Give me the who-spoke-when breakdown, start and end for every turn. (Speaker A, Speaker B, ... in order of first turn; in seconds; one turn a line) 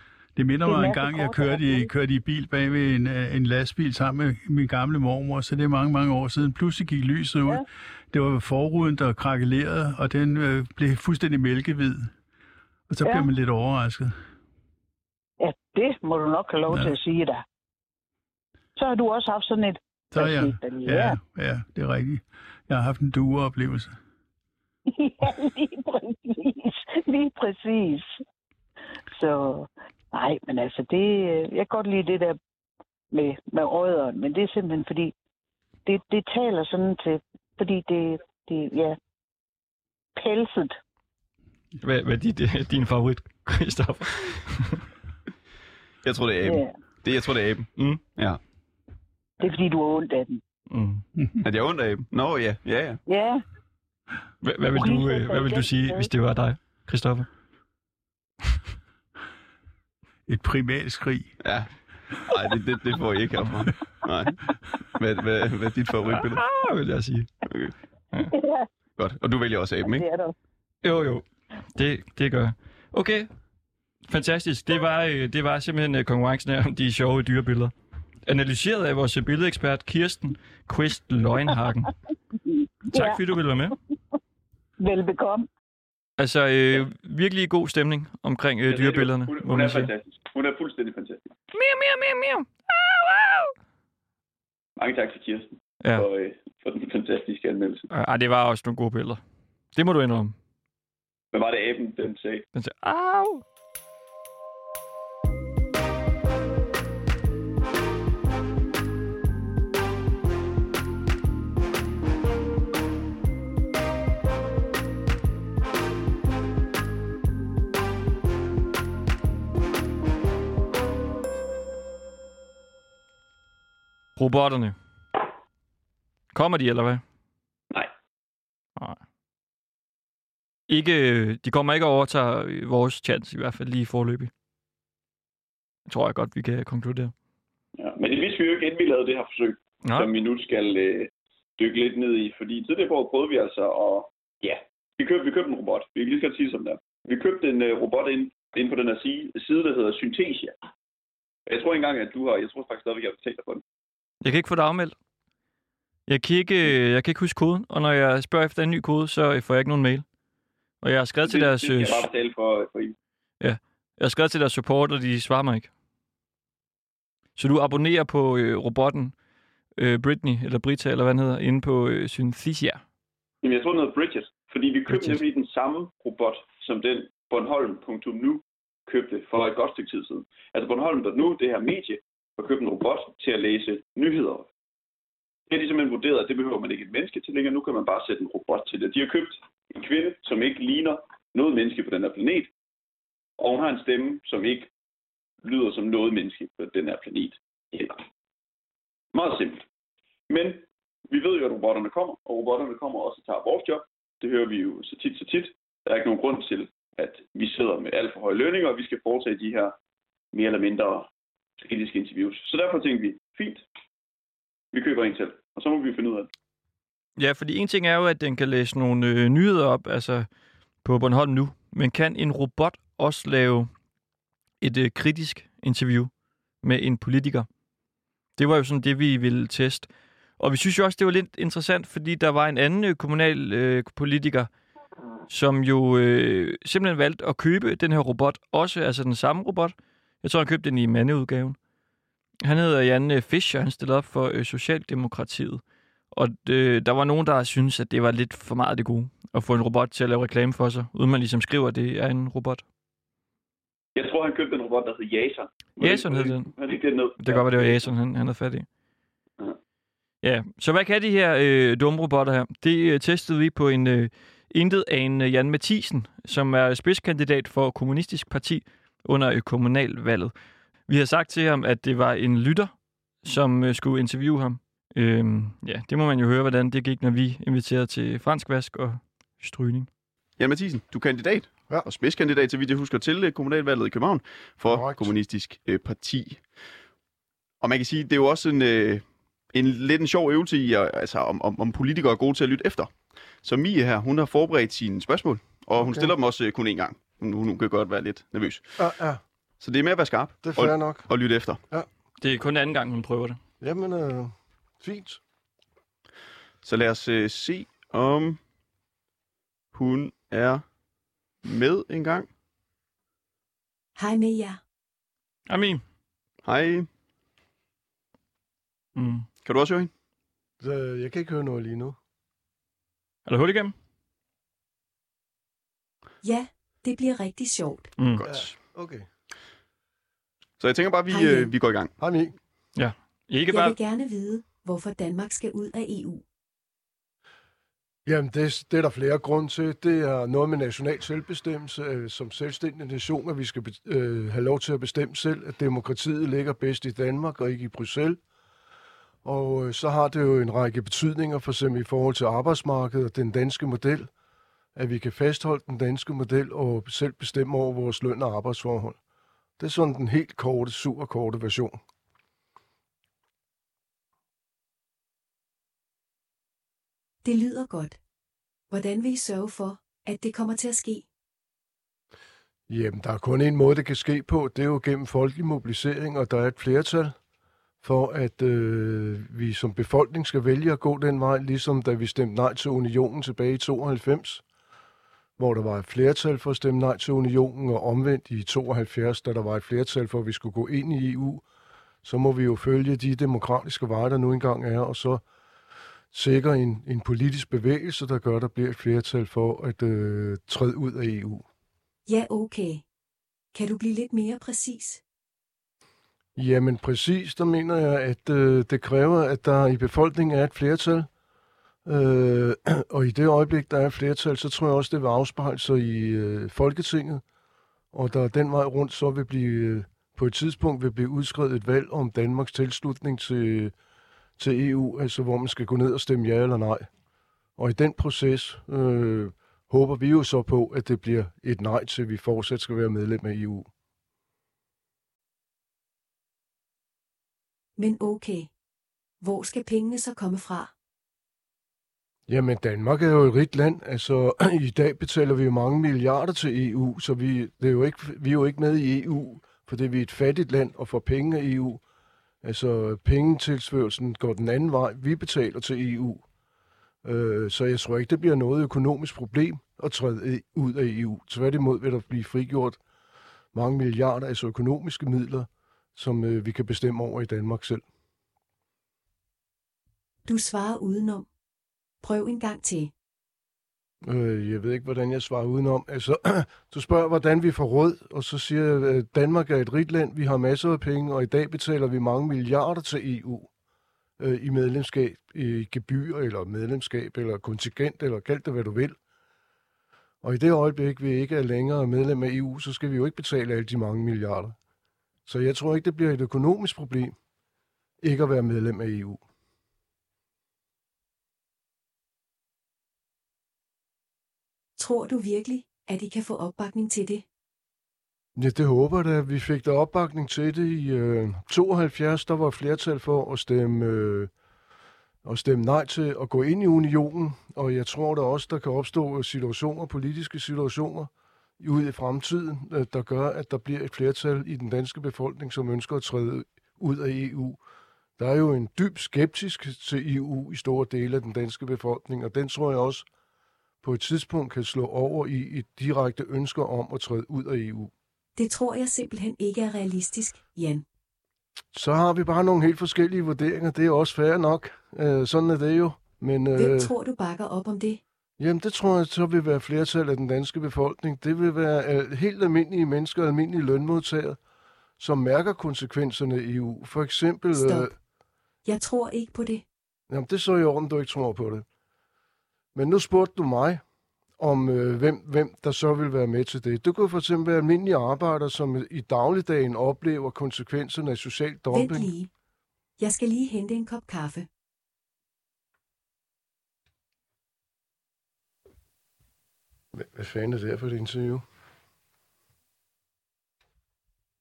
Speaker A: 0.4-12.1
Speaker B: 0.7-1.9
Speaker A: 12.9-14.2
Speaker B: 15.4-17.4
Speaker B: 18.8-21.2
Speaker A: 20.1-24.0
Speaker B: 24.9-28.2
Speaker B: 29.1-32.4
Speaker B: 33.1-35.1
Speaker B: 35.9-39.0
Speaker B: 40.2-40.8
Speaker C: 41.8-44.8
Speaker D: 46.0-48.4
Speaker B: 46.4-46.7
Speaker B: 49.4-50.4
Speaker C: 50.7-51.0
Speaker D: 51.4-53.0
Speaker B: 53.1-53.4
Speaker C: 54.4-57.3
Speaker B: 54.7-56.1
Speaker A: 60.3-61.4
Speaker D: 61.4-61.7
Speaker D: 62.3-64.3
Speaker D: 65.0-66.4
Speaker C: 66.1-67.3
Speaker D: 67.5-67.7
Speaker B: 68.3-68.7
Speaker D: 69.0-70.0
Speaker B: 69.8-70.3
Speaker C: 70.8-73.3
Speaker C: 74.1-77.7
Speaker C: 78.3-81.9
Speaker B: 82.9-83.2
Speaker C: 82.9-83.8
Speaker B: 84.8-85.5
Speaker C: 86.2-89.9
Speaker E: 88.7-91.3
Speaker C: 91.5-93.5
Speaker E: 94.8-97.9
Speaker C: 97.9-99.2
Speaker C: 99.7-100.3
Speaker E: 101.3-102.5
Speaker C: 102.5-103.4
Speaker C: 124.2-124.8
Speaker C: 126.3-127.0
Speaker C: 130.7-134.3
Speaker C: 135.9-137.1
Speaker E: 137.8-150.6
Speaker C: 139.8-140.1
Speaker E: 151.5-153.6
Speaker C: 154.2-154.9
Speaker C: 156.1-160.1
Speaker C: 160.8-162.1
Speaker E: 161.2-163.0
Speaker C: 163.4-165.7
Speaker C: 167.4-169.2
Speaker C: 169.8-172.8
Speaker E: 173.4-184.5
Speaker C: 174.9-175.2
Speaker E: 185.5-192.5
Speaker E: 193.4-194.7
Speaker E: 195.4-198.0
Speaker E: 199.1-199.6
Speaker E: 200.3-209.8
Speaker E: 210.3-213.7
Speaker E: 214.7-216.3
Speaker C: 217.2-220.3
Speaker C: 220.8-223.7
Speaker C: 224.6-226.1
Speaker C: 226.6-227.5
Speaker C: 228.4-229.9
Speaker C: 230.4-234.5
Speaker C: 235.3-241.6
Speaker C: 242.4-252.6
Speaker E: 254.0-257.9
Speaker C: 255.8-256.5
Speaker C: 257.2-258.7
Speaker C: 260.2-270.3
Speaker C: 270.9-279.9
Speaker D: 280.4-286.4
Speaker F: 284.7-285.1
Speaker D: 287.6-292.9
Speaker D: 293.4-298.8
Speaker F: 295.8-296.1
Speaker F: 298.8-299.2
Speaker D: 299.6-301.6
Speaker F: 300.4-301.1
Speaker C: 302.2-303.4
Speaker F: 303.6-305.2
Speaker D: 306.6-308.4
Speaker D: 309.7-310.6
Speaker D: 311.4-312.3
Speaker G: 314.0-314.6
Speaker C: 315.5-315.8
Speaker D: 316.4-316.9
Speaker C: 319.0-319.3
Speaker D: 319.4-319.9
Speaker F: 320.6-322.0
Speaker C: 323.3-323.7
Speaker G: 326.2-327.9
Speaker C: 328.0-328.2
Speaker D: 328.2-328.5
Speaker F: 328.2-329.1
Speaker D: 330.6-331.9
Speaker G: 331.1-331.5
Speaker F: 332.0-332.3
Speaker C: 332.8-333.8
Speaker G: 333.5-336.2
Speaker F: 338.1-348.2
Speaker F: 349.2-354.1
Speaker F: 354.8-359.0
Speaker F: 359.6-361.8
Speaker G: 367.2-368.0
Speaker G: 368.7-371.1
Speaker F: 372.7-377.1
Speaker F: 377.8-384.4
Speaker F: 385.4-391.4
Speaker F: 392.0-395.2
Speaker F: 396.1-401.4
Speaker G: 402.1-402.8
Speaker G: 403.5-405.0
Speaker F: 406.4-411.1
Speaker F: 411.9-417.2
Speaker F: 417.9-423.7
Speaker F: 424.4-426.9
Speaker F: 427.6-433.7
Speaker G: 437.8-438.5
Speaker G: 439.2-440.7
Speaker F: 442.3-451.8
Speaker F: 452.4-456.2
Speaker F: 457.0-462.8
Speaker F: 463.5-467.8
Speaker G: 470.2-471.3
Speaker G: 472.0-472.9
Speaker F: 474.0-483.5
Speaker F: 484.2-489.0
Speaker F: 490.2-494.6
Speaker F: 495.3-497.2
Speaker F: 498.0-499.2
Speaker G: 504.8-507.2
Speaker F: 508.4-514.3
Speaker F: 515.2-527.6
Speaker F: 528.2-533.1
Speaker F: 533.8-537.9
Speaker G: 538.4-540.9
Speaker F: 541.7-546.9
Speaker G: 546.5-548.0
Speaker F: 548.4-554.4
Speaker F: 555.0-557.9
Speaker G: 557.5-557.9
Speaker G: 558.6-559.6
Speaker F: 560.1-561.7
Speaker F: 562.7-563.8
Speaker F: 564.4-572.1
Speaker G: 571.7-572.3
Speaker G: 573.0-574.5
Speaker F: 579.9-581.4